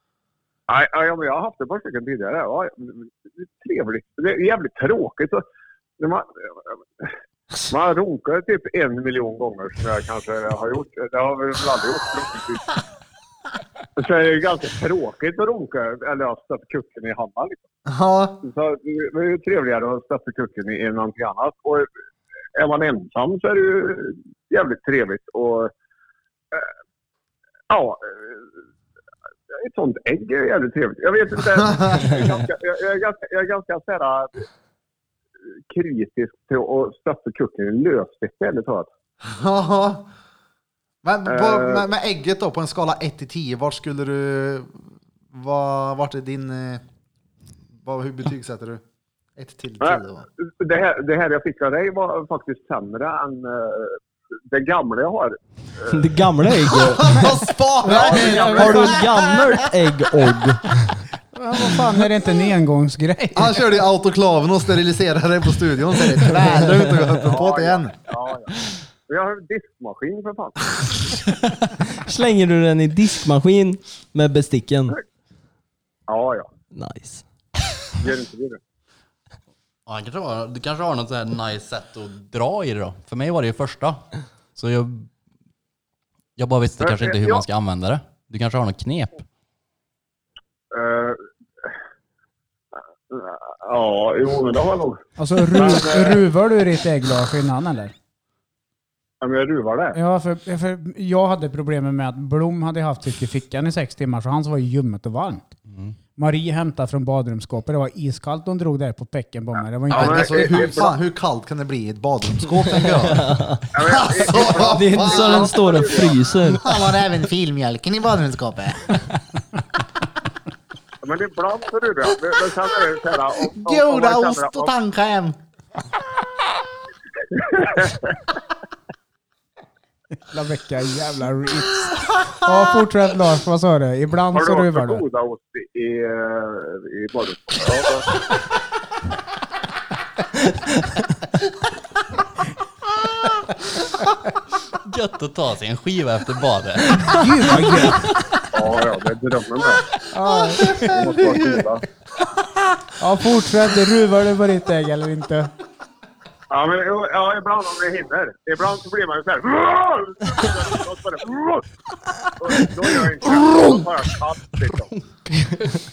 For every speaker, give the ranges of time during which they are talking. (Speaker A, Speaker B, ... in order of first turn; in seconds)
Speaker A: 0.7-5.4, 6.0-7.0, 7.7-12.8, 14.0-17.6, 18.4-21.9, 22.6-25.7, 27.7-28.4, 29.6-34.4, 35.7-38.9, 41.3-41.9, 49.8-54.0, 54.5-56.0, 57.9-59.1, 67.2-68.5, 69.1-70.6, 76.1-76.4, 78.0-78.6, 86.8-87.4, 90.7-91.7, 93.1-95.0, 95.5-96.2, 99.2-100.0, 109.9-111.0, 113.7-116.2, 121.0-124.7, 127.3-128.1, 134.3-138.1, 148.5-149.8, 150.9-151.8, 156.5-161.6, 162.4-164.9
Speaker B: 17.9-18.4, 31.6-32.0, 39.2-40.0, 41.0-46.8, 47.8-48.8, 49.4-50.2, 56.8-58.9, 63.3-67.9, 109.9-113.3, 113.8-115.4, 116.5-119.0, 123.5-125.4, 150.3-151.7
Speaker C: 55.9-57.3, 58.0-61.0, 71.8-75.0, 76.7-77.2, 112.8-113.6, 114.5-117.0
Speaker D: 57.8-58.9, 61.3-63.6, 95.2-97.9, 99.9-105.5, 106.1-110.8, 130.3-135.0, 147.1-148.1, 150.1-151.3, 152.9-155.5
Speaker E: 79.9-85.1, 86.4-89.2, 105.7-106.0, 144.7-147.2, 164.9-165.7